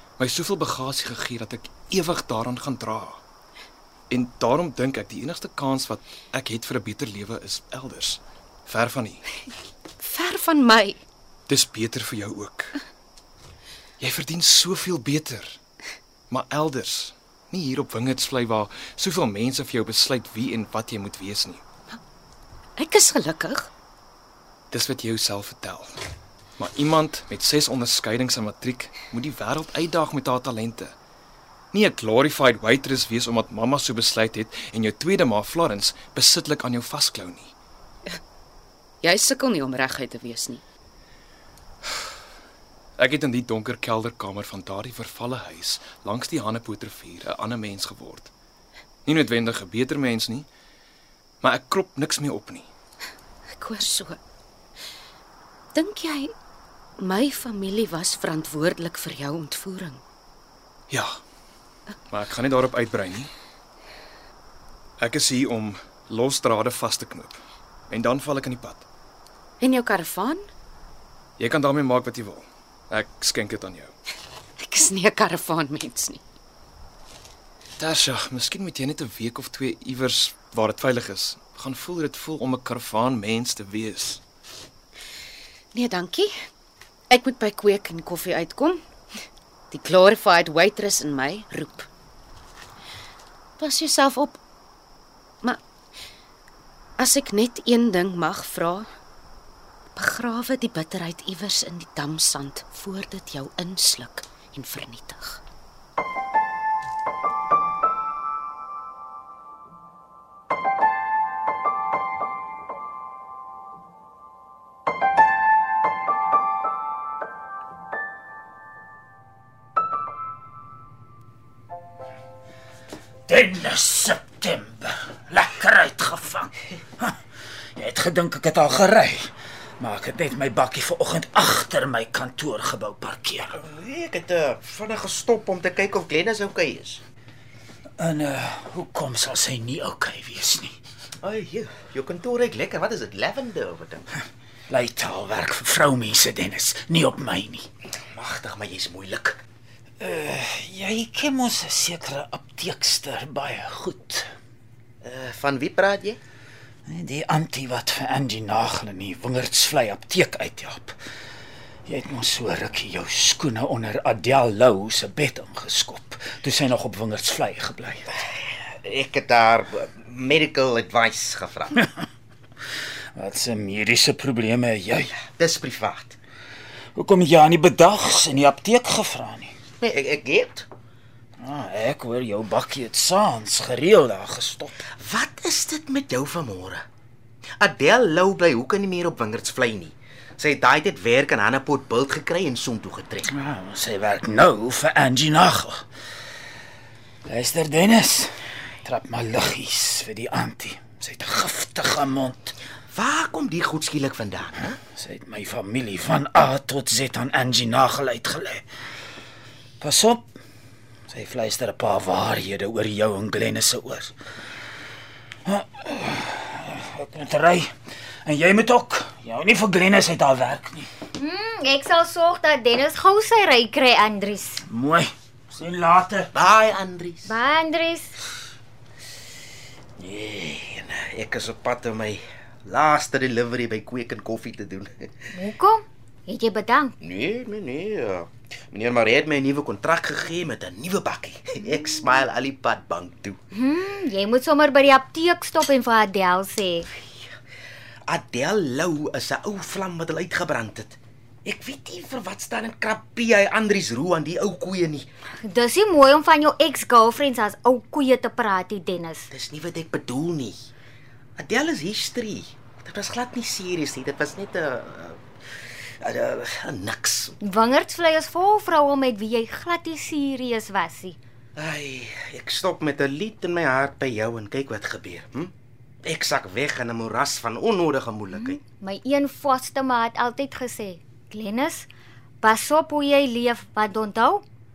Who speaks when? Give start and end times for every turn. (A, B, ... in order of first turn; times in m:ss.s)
0:00.2-0:03.2 A
0:04.1-0:09.2 A
0:10.0-0:11.0 B
0:11.5-0:12.8 A
0:14.0-0:15.6 A
0:16.3-0:21.6 A
0:22.8-0:23.7 B
0:24.7-0:26.0 A
0:26.6-0:30.9 A
0:31.7-0:37.5 A
0:39.0-0:40.6 B
0:43.0-0:48.3 A
0:49.0-0:50.5 A
0:51.4-0:52.7 A
0:53.6-0:54.2 B
0:55.7-0:56.3 B
0:57.0-1:00.0 B
1:00.9-1:01.2 A
1:02.1-1:03.3 A
1:05.0-1:07.4 A
1:07.9-1:08.8 A
1:09.6-1:10.4 B
1:11.4-1:13.9 A
1:14.6-1:16.2 B
1:17.8-1:24.2 A
1:25.7-1:26.3 B
1:27.1-1:28.8 B
1:29.7-1:31.9 B
1:33.6-1:34.4 B
1:37.0-1:38.8 B
1:40.0-1:45.4 B
2:03.3-2:07.2 C
2:07.8-2:13.5 C
2:13.6-2:17.0 D
2:18.0-2:20.8 C
2:21.2-2:24.1 D
2:24.7-2:27.7 C
2:28.1-2:29.4 D
2:30.0-2:34.3 C
2:35.0-2:36.2 D
2:36.9-2:41.0 C
2:41.8-2:48.2 C
2:48.8-2:51.8 D
2:53.1-2:55.1 C
2:55.2-2:56.2 D
2:56.9-2:59.5 C
2:59.8-3:00.7 D
3:01.4-3:04.8 C
3:05.0-3:06.8 D
3:07.6-3:13.3 D
3:13.3-3:15.8 C
3:17.2-3:18.3 C
3:18.8-3:22.5 C
3:22.9-3:24.8 D
3:24.9-3:28.6 C
3:29.8-3:30.3 C
3:31.1-3:34.1 C
3:35.4-3:37.7 C
3:38.2-3:40.9 C
3:41.2-3:44.6 E
3:44.6-3:46.3 C
3:46.3-3:47.3 D
3:47.2-3:48.1 E
3:50.0-3:55.1 D
3:55.3-3:56.9 E
3:57.0-4:03.4 D
4:03.5-4:06.9 E
4:08.1-4:15.1 D
4:15.4-4:19.3 E
4:19.3-4:20.6 D
4:21.4-4:25.2 D
4:26.0-4:27.3 D
4:27.4-4:31.2 E
4:31.6-4:35.5 D
4:36.0-4:38.6 D
4:38.3-4:41.9 E
4:42.4-4:44.4 E